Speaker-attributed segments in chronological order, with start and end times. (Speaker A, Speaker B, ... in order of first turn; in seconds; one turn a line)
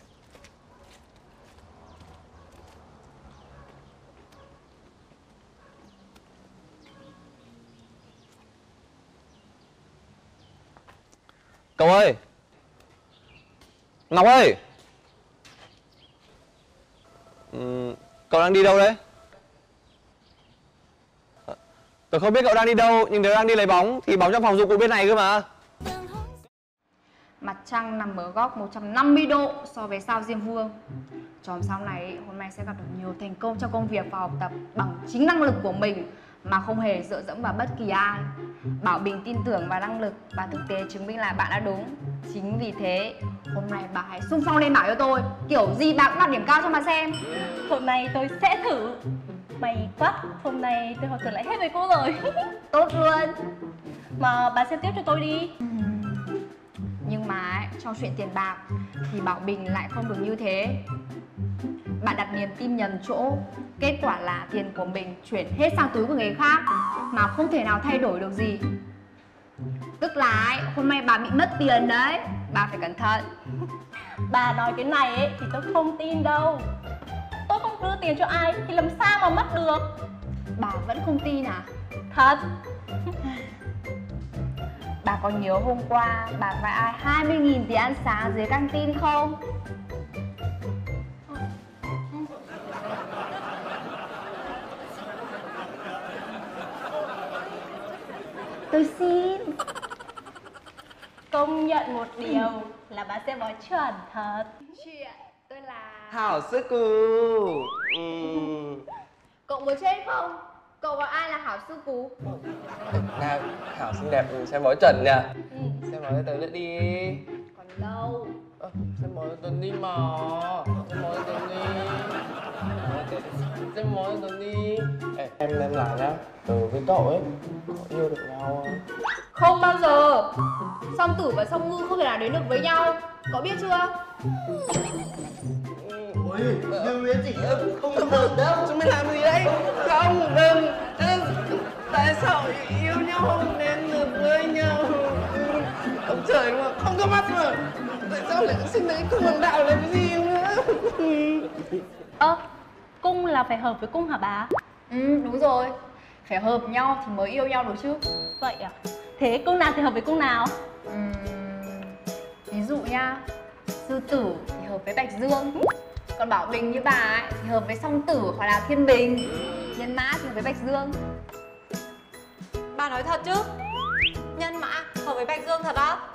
Speaker A: 11.8-12.2
Speaker A: 14.1-14.6
Speaker A: 17.5-19.0
Speaker A: 22.1-25.5
Speaker B: 27.4-30.8
Speaker B: 31.4-47.2
Speaker C: 47.6-49.0
Speaker C: 49.6-52.2
Speaker B: 52.7-53.4
Speaker C: 54.2-55.5
Speaker B: 55.6-56.3
Speaker B: 57.0-60.8
Speaker B: 62.0-68.7
Speaker B: 70.0-73.3
Speaker C: 74.3-76.7
Speaker C: 77.5-79.9
Speaker B: 80.6-81.7
Speaker C: 82.1-82.5
Speaker B: 85.0-89.4
Speaker B: 98.7-99.5
Speaker C: 101.3-104.5
Speaker B: 102.2-102.5
Speaker B: 104.7-106.3
Speaker D: 106.1-108.8
Speaker B: 109.5-112.2
Speaker D: 112.9-115.3
Speaker D: 115.8-117.2
Speaker B: 117.5-118.4
Speaker D: 118.6-122.2
Speaker D: 122.8-128.8
Speaker B: 129.3-130.3
Speaker B: 130.9-133.9
Speaker D: 135.8-136.2
Speaker E: 136.2-138.6
Speaker D: 136.7-151.5
Speaker C: 153.0-154.5
Speaker B: 154.9-155.7
Speaker B: 156.2-158.0
Speaker C: 158.4-160.5
Speaker B: 160.9-162.0
Speaker B: 162.5-163.2
Speaker B: 163.8-165.6
Speaker B: 166.2-171.0
Speaker F: 172.7-173.4
Speaker F: 174.4-176.0